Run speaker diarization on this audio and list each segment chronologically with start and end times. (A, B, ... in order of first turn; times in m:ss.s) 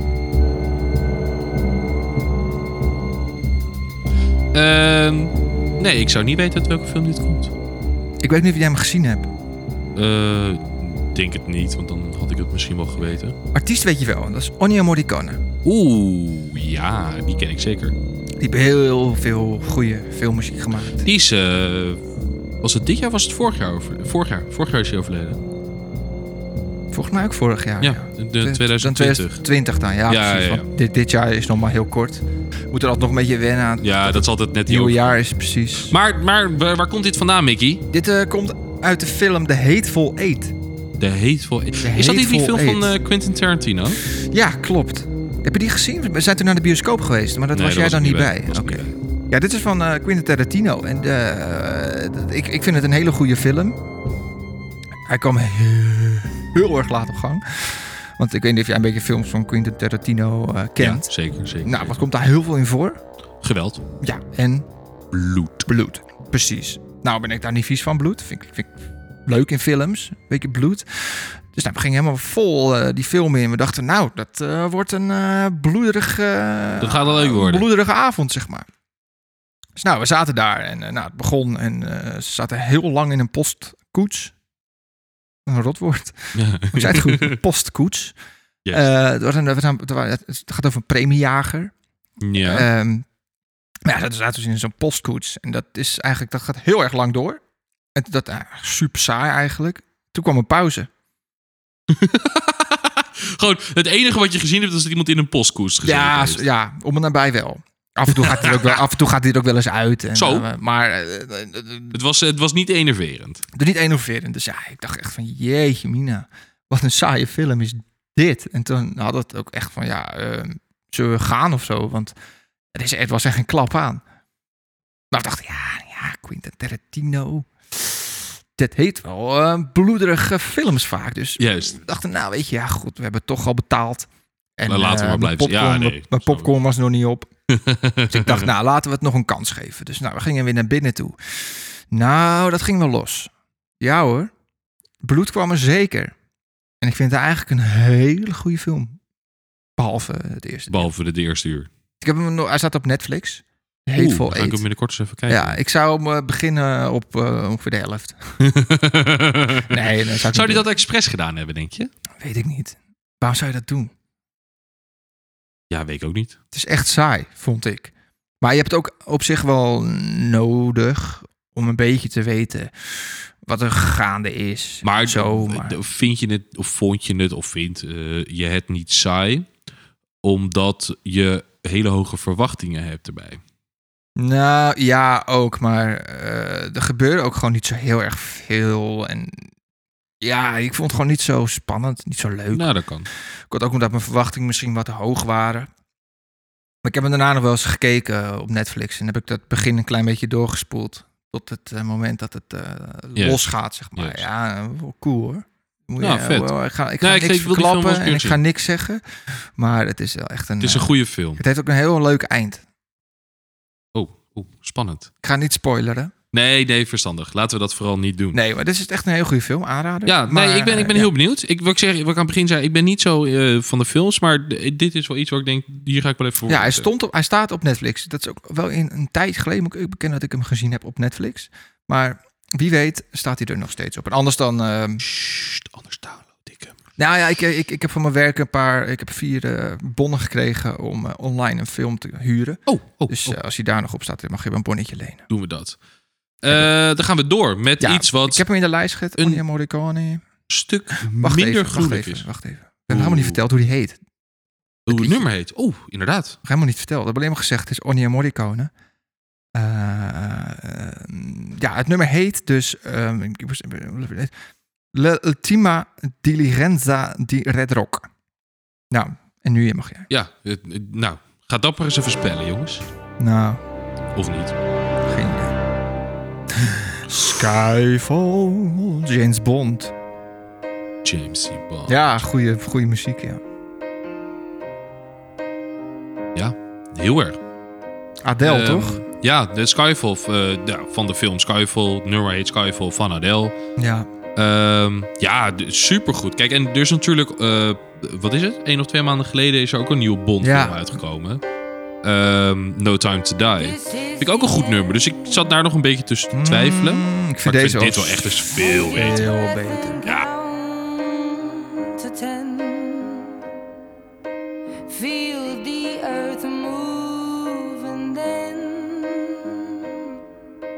0:04.5-0:07.5 A
0:08.2-0:09.3 B
0:09.9-0:13.4 A
0:13.5-0:15.4 B
0:15.6-0:18.0 A
0:18.4-0:21.0 B
0:21.0-0:22.0 A
0:22.6-0:25.4 A
0:26.9-0:35.9 B
0:27.8-0:29.4 A
0:30.1-0:30.6 A
0:33.8-0:35.1 A
0:35.9-0:37.8 A
0:37.9-0:40.5 B
0:41.0-0:44.0 A
0:41.8-0:42.9 B
0:44.3-0:53.8 B
0:47.5-0:49.0 A
0:55.1-1:01.1 B
1:00.8-1:02.0 A
1:01.6-1:03.0 B
1:03.4-1:03.8 A
1:04.0-1:04.6 B
1:05.1-1:05.7 A
1:05.7-1:08.7 B
1:09.2-1:18.6 B
1:16.8-1:17.7 A
1:19.8-1:24.3 B
1:25.4-1:28.2 B
1:26.3-1:27.4 A
1:28.7-1:31.7 B
1:32.2-1:32.7 A
1:32.4-1:33.0 B
1:33.9-1:37.4 B
1:38.0-1:40.9 B
1:41.9-1:46.4 A
1:45.8-1:52.0 B
1:48.1-1:48.8 A
1:50.1-1:50.5 A
1:51.9-1:53.4 A
1:53.5-2:02.1 B
2:02.7-2:04.0 B
2:05.1-2:17.3 B
2:11.4-2:11.8 A
2:14.7-2:16.5 A
2:17.5-2:18.5 A
2:18.1-2:24.3 B
2:25.0-2:26.1 B
2:26.8-2:29.0 B
2:29.8-2:30.9 B
2:30.7-2:31.7 A
2:32.0-2:34.6 B
2:33.9-2:35.6 A
2:35.3-2:38.3 B
2:38.4-2:41.9 A
2:39.7-2:40.6 B
2:42.2-2:43.9 B
2:45.7-2:46.4 A
2:46.5-2:55.8 B
2:54.8-2:59.5 A
3:00.2-3:03.4 A
3:04.2-3:09.5 B
3:10.2-3:12.7 B
3:12.5-3:13.1 A
3:13.5-3:15.7 B
3:16.8-3:32.6 B
3:23.2-3:23.4 A
3:24.0-3:24.2 A
3:26.0-3:28.4 A
3:30.6-3:31.4 A
3:33.9-3:35.1 A
3:35.2-3:36.1 B
3:36.3-3:38.4 A
3:38.3-3:41.1 B
3:40.0-3:46.9 A
3:46.5-3:55.0 B
3:55.0-3:56.7 A
3:57.0-4:05.2 B
4:02.7-4:03.4 A
4:05.3-4:05.8 A
4:06.4-4:08.4 A
4:07.8-4:10.2 B
4:09.2-4:09.4 A
4:10.5-4:12.2 A
4:11.0-4:14.0 B
4:12.9-4:13.4 A
4:14.9-4:16.4 A
4:14.9-4:15.2 B
4:16.4-4:18.7 B
4:19.5-4:24.3 B
4:24.9-4:28.1 B
4:28.9-4:30.1 B
4:30.1-4:32.8 A
4:33.2-4:33.6 B
4:34.1-4:34.6 A
4:35.1-4:35.6 B
4:36.6-4:39.9 B
4:41.0-4:42.2 A
4:41.9-4:43.4 B
4:46.3-4:47.4 A
4:48.2-4:49.0 B
4:48.4-4:53.5 A
4:53.8-4:54.1 B
4:54.4-5:01.4 A
5:00.4-5:00.8 B
5:02.0-5:09.3 A
5:03.6-5:05.4 C
5:06.3-5:10.0 B
5:08.6-5:13.4 C
5:14.9-5:20.2 C